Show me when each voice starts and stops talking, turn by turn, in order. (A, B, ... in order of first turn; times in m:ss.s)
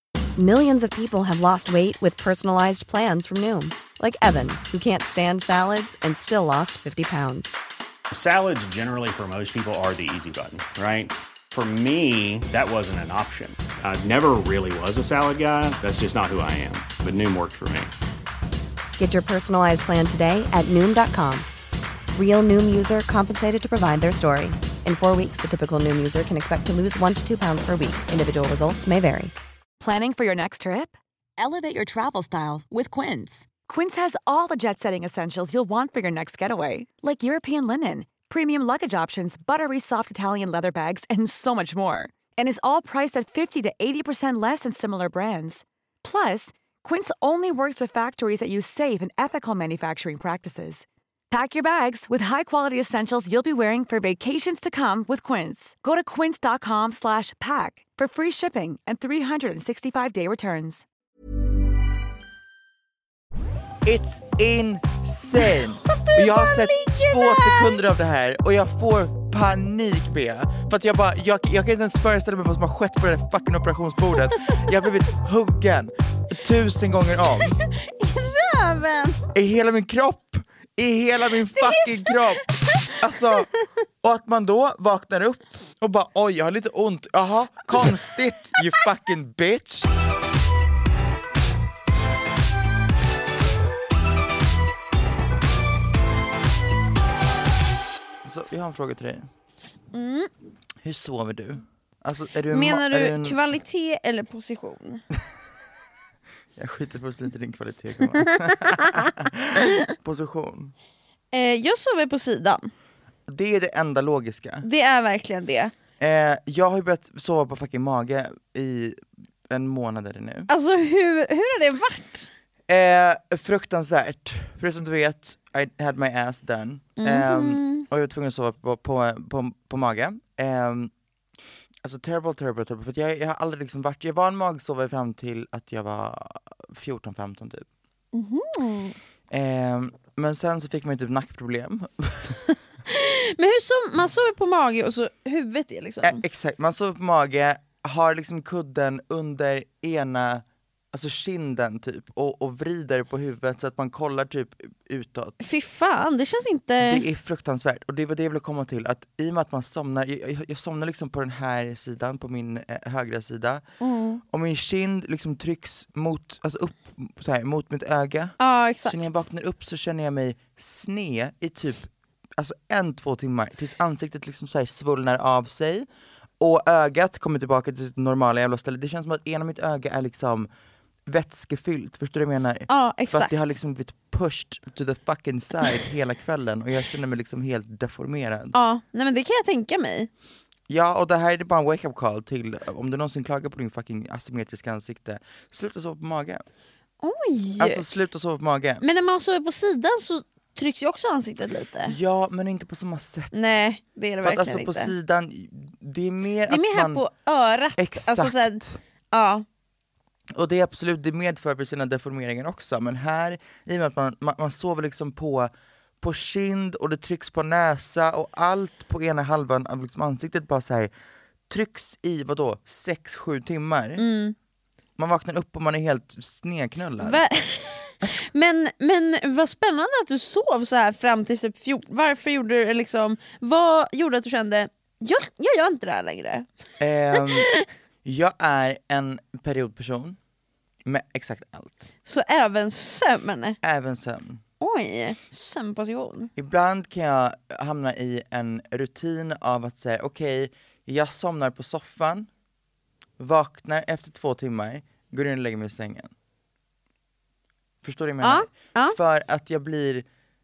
0:00.4-0:07.5 A
0:08.1-0:17.9 B
0:19.0-0:21.5 A
0:22.1-0:29.3 A
0:29.8-1:00.9 C
1:03.8-1:17.6 D
1:05.4-1:07.8 E
1:17.1-1:19.3 E
1:19.3-1:23.5 D
1:21.6-1:22.2 E
1:24.0-1:29.9 D
1:38.2-1:39.3 D
1:39.9-1:40.3 E
1:40.8-1:43.4 D
1:42.5-1:45.0 E
1:46.6-1:50.7 D
1:51.3-1:52.7 E
1:53.3-1:54.7 D
1:54.6-1:55.7 E
1:56.0-2:00.5 D
2:00.5-2:02.3 E
2:02.7-2:10.9 D
2:07.0-2:07.8 E
2:11.8-2:17.7 D
2:18.1-2:19.0 E
2:19.3-2:22.4 D
2:22.9-2:26.2 E
2:26.0-2:35.4 D
2:35.4-2:37.0 E
2:36.8-2:43.6 D
2:43.8-2:44.2 E
2:44.3-2:55.9 D
2:48.4-2:49.2 E
2:56.4-3:00.5 D
3:01.1-3:08.6 D
3:02.7-3:03.5 E
3:08.5-3:10.1 E
3:10.7-3:16.4 D
3:17.0-3:17.9 E
3:17.6-3:18.8 D
3:18.8-3:22.0 E
3:21.9-3:23.4 D
3:23.3-3:24.9 E
3:24.2-3:27.0 D
3:26.5-3:29.4 E
3:27.8-3:28.8 D
3:30.3-3:40.9 D
3:41.5-3:44.0 D
3:44.0-3:44.4 E
3:45.0-3:47.2 D
3:47.0-3:56.5 E
3:56.8-3:57.5 D
3:57.2-3:57.6 E
3:58.0-4:00.2 D
4:00.8-4:01.9 D
4:02.1-4:03.6 E
4:03.6-4:04.4 D
4:04.6-4:06.3 E
4:06.4-4:12.3 D
4:13.2-4:16.1 D
4:17.8-4:20.0 D
4:18.2-4:19.0 E